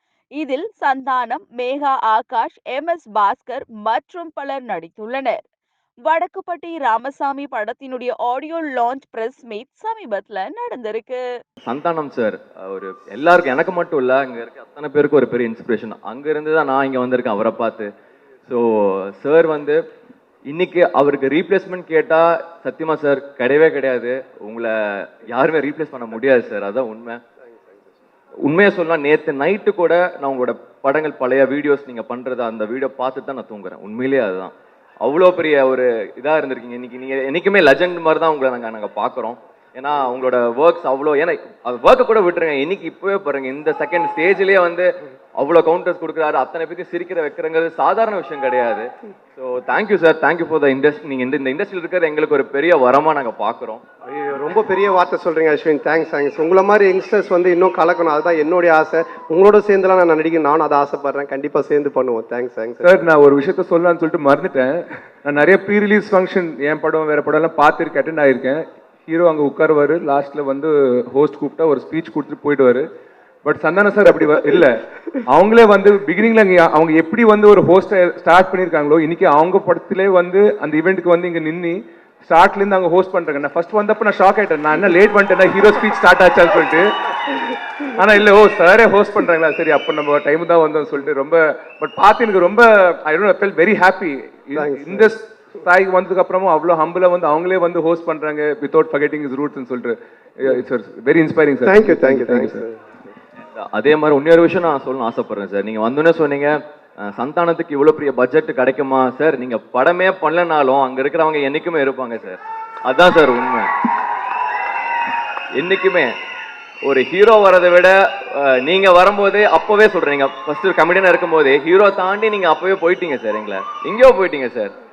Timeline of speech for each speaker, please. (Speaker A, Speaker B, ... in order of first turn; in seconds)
Speaker A: 0.4-5.4, 6.0-11.2
Speaker B: 11.6-17.9, 18.5-19.8, 20.5-27.2, 28.4-53.8, 103.5-113.7, 115.5-116.1, 116.8-124.7
Speaker C: 54.1-63.0, 94.5-95.1, 101.7-102.8
Speaker D: 62.8-72.9, 73.4-102.6